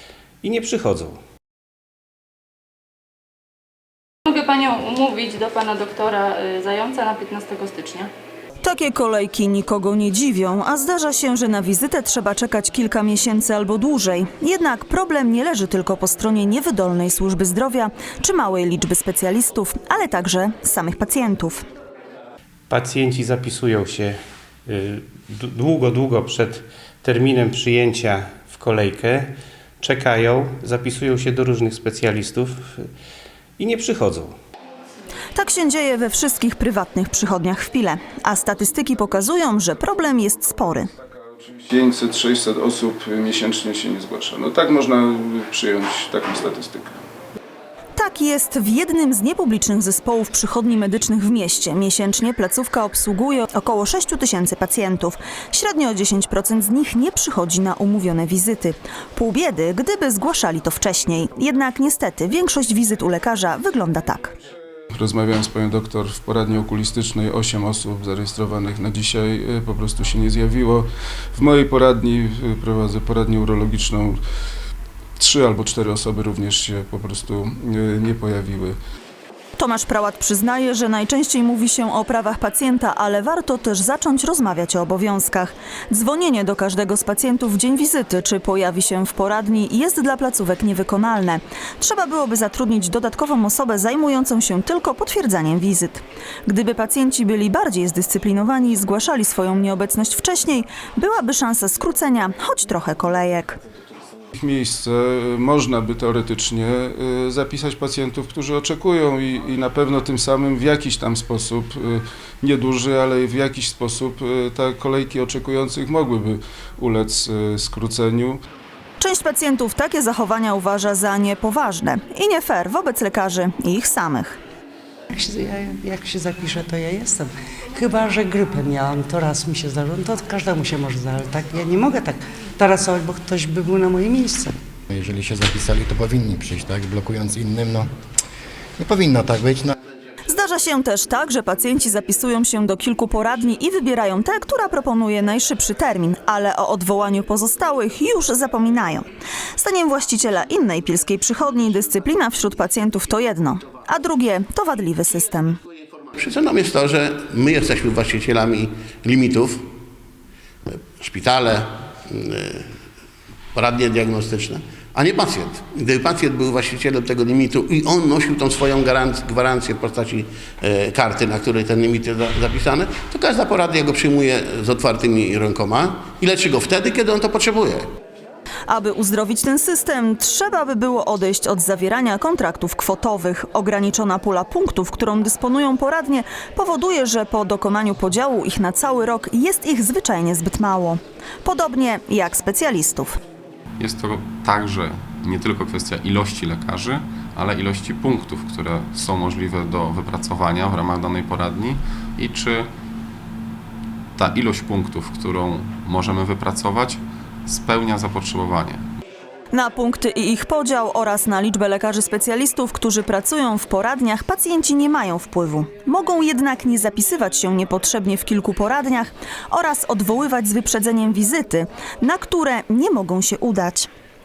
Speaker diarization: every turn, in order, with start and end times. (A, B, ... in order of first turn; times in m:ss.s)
0:00.4-0:01.2 A
0:04.2-0:08.1 B
0:08.6-0:21.6 C
0:22.7-0:32.8 A
0:33.6-0:34.3 A
0:35.3-0:40.9 C
0:41.6-0:47.0 D
0:48.0-1:04.3 C
1:04.9-1:14.2 D
1:15.2-1:18.7 D
1:19.6-1:43.6 C
1:44.4-1:58.4 D
1:59.0-2:04.4 C
2:05.1-2:14.5 E
2:14.9-2:17.9 F
2:18.8-2:19.7 F
2:20.3-2:29.0 C
2:29.6-2:35.6 C
2:36.1-2:39.6 G
2:40.7-2:42.7 G
2:43.5-2:57.8 G
2:58.7-3:13.2 C
3:13.8-3:22.7 H
3:24.2-3:28.8 H
3:29.5-3:43.9 C